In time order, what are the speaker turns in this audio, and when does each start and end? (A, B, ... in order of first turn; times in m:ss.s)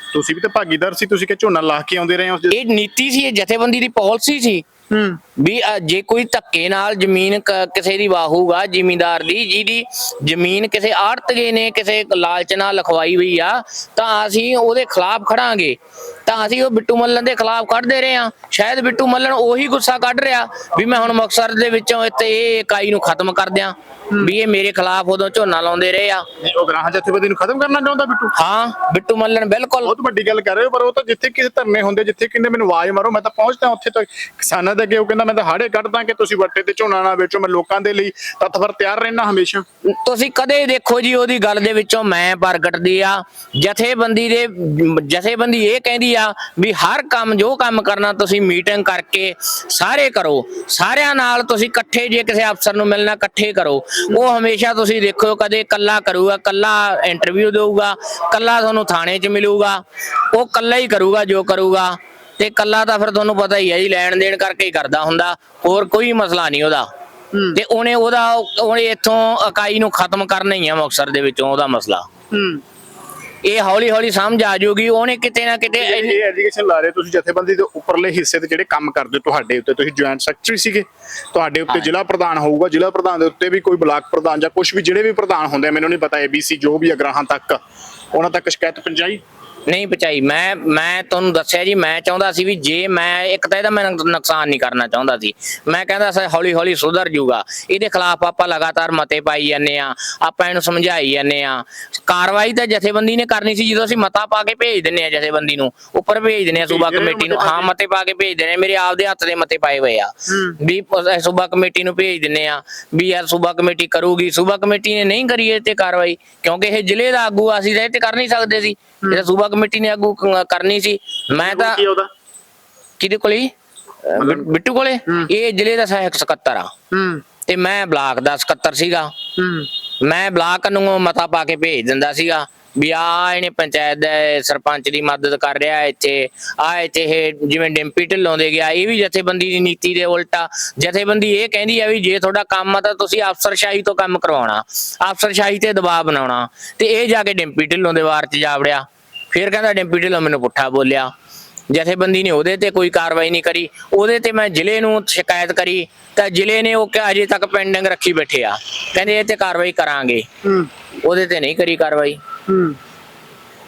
0:00.1-0:02.6 A
0:02.5-0:04.7 B
0:04.9-0:05.2 A
0:05.4-0:26.2 B
0:26.4-0:28.4 A
0:28.4-0:29.9 B
0:29.8-0:39.6 A
0:39.9-1:06.9 B
1:07.3-1:07.6 A
1:07.5-1:12.1 B
1:12.3-1:12.6 A
1:13.4-1:16.2 B
1:15.7-1:27.6 A
1:28.1-1:29.2 A
1:29.7-2:01.8 B
1:46.6-1:47.7 A
1:50.3-1:50.6 A
2:01.4-2:02.1 A
2:03.0-2:03.5 B
2:04.0-2:06.7 B
2:04.2-2:04.5 A
2:06.9-2:07.2 A
2:07.5-2:09.1 B
2:09.4-2:09.7 A
2:10.0-2:31.1 B
2:31.7-2:40.3 B
2:40.4-2:40.7 A
2:41.0-2:42.2 B
2:42.5-2:42.8 A